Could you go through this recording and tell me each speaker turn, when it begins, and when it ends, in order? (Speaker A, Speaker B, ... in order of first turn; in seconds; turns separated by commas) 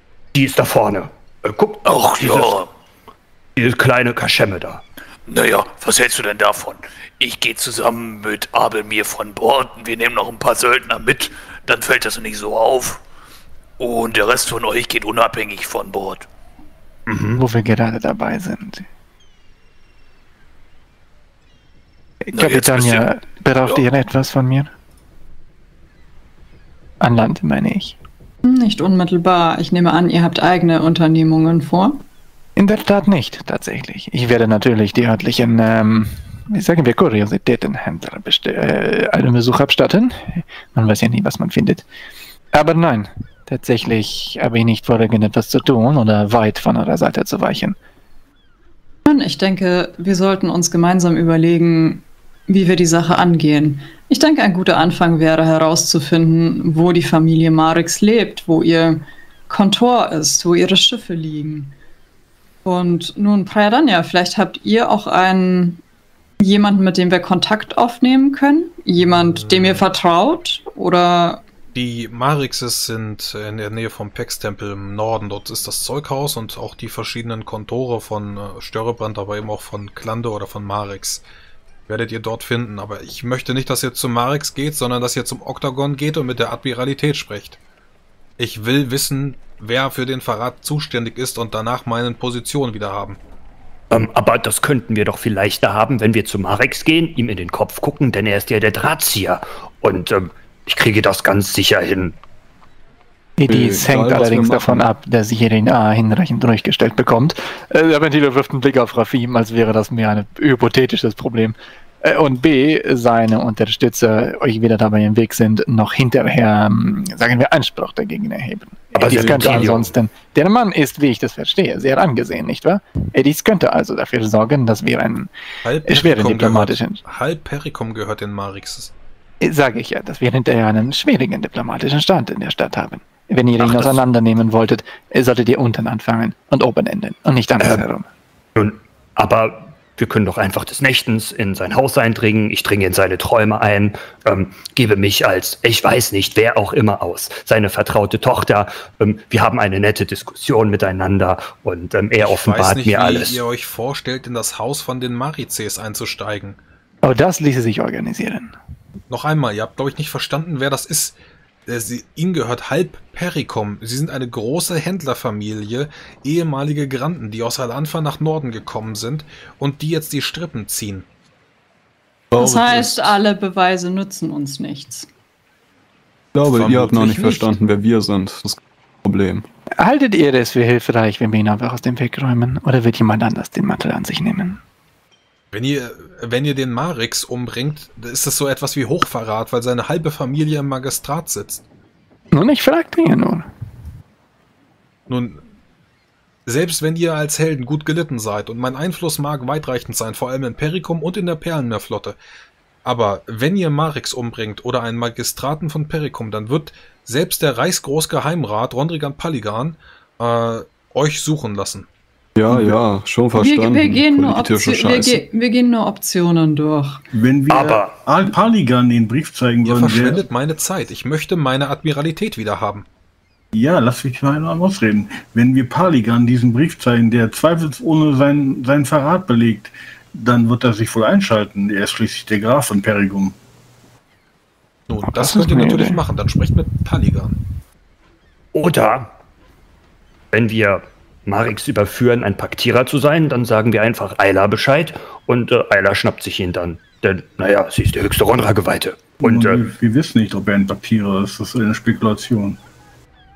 Speaker A: 0.3-2.6, Speaker B: 1.8-2.7, Speaker A: 3.6-4.8, Speaker B: 5.3-13.0, Speaker B: 13.8-16.3, Speaker A: 17.1-17.4, Speaker C: 17.4-18.9, Speaker C: 22.3-24.7, Speaker B: 22.3-23.1, Speaker C: 27.0-28.0, Speaker D: 28.4-32.0, Speaker C: 32.6-41.9, Speaker C: 42.5-47.8, Speaker D: 49.0-61.7, Speaker D: 62.6-65.8, Speaker D: 66.4-71.4, Speaker E: 69.0-69.8, Speaker E: 71.7-81.2, Speaker E: 81.9-87.6, Speaker E: 88.4-93.2, Speaker A: 93.9-102.2, Speaker C: 103.4-125.3, Speaker F: 103.5-104.9, Speaker A: 118.9-119.9, Speaker E: 125.6-128.9, Speaker C: 125.9-127.0, Speaker C: 129.4-138.1, Speaker A: 133.6-134.0, Speaker A: 137.6-137.9, Speaker A: 138.6-153.4, Speaker E: 152.2-156.6, Speaker C: 157.0-158.5, Speaker E: 159.1-161.2, Speaker E: 161.7-171.1, Speaker F: 172.3-173.1, Speaker D: 172.4-175.1, Speaker F: 176.3-179.4, Speaker E: 176.5-177.6, Speaker C: 179.8-184.6, Speaker E: 185.5-191.6, Speaker C: 192.3-193.5, Speaker E: 195.1-195.4, Speaker E: 196.5-202.2, Speaker E: 202.8-211.9, Speaker F: 212.4-215.2, Speaker G: 212.5-212.8, Speaker D: 213.4-217.0, Speaker G: 217.1-220.2, Speaker A: 217.5-218.0, Speaker E: 219.6-222.9, Speaker G: 223.5-233.4, Speaker E: 234.9-237.4, Speaker C: 235.1-236.0, Speaker A: 238.5-239.1, Speaker A: 240.3-249.6, Speaker G: 249.2-252.6